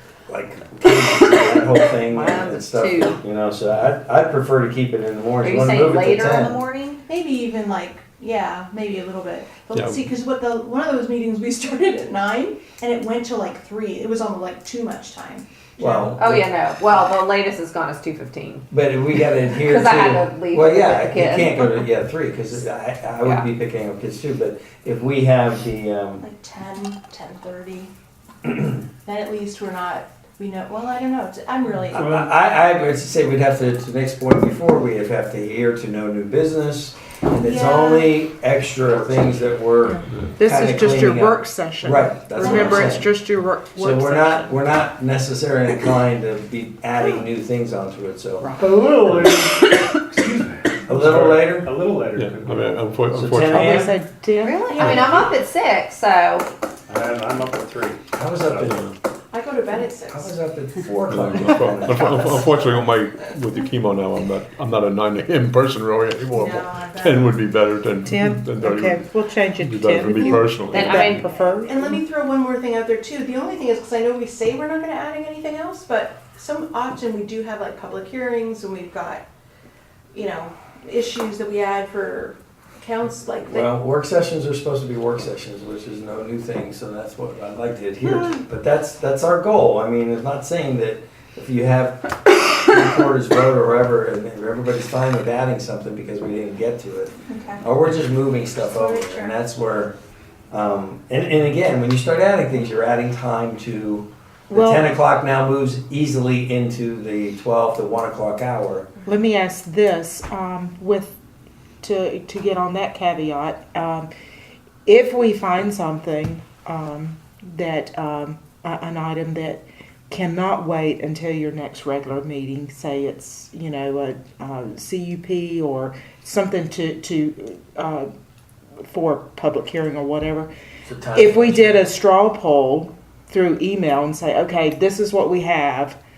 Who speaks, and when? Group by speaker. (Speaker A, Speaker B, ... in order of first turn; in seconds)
Speaker A: 0.3-6.6, 15.8-16.5, 18.7-26.2, 31.9-43.1, 43.7-48.6, 50.9-51.7, 53.1-53.9, 58.1-58.9, 60.1-62.6, 83.5-100.0, 100.5-108.9, 130.8-131.9
Speaker B: 2.0-3.2, 5.4-7.0, 16.2-18.6, 19.4-21.9, 54.4-56.5, 70.7-71.2
Speaker C: 7.0-16.1, 26.2-27.9, 29.0-32.2, 37.4-38.2, 42.4-42.9, 59.3-60.3, 66.3-67.4, 71.5-79.2, 80.1-83.7, 97.3-97.6, 98.6-99.3
Speaker D: 9.7-10.0, 51.1-51.5, 52.1-53.9, 54.7-55.2, 58.7-58.9, 61.1-69.1, 69.6-71.2
Speaker E: 31.9-32.3, 48.6-53.0, 56.9-58.8
Speaker F: 39.8-44.6, 48.4-48.8, 53.5-55.1, 68.0-72.0, 104.5-104.9, 109.0-111.1, 111.8-114.1, 114.8-128.1, 128.8-130.5, 131.1-136.0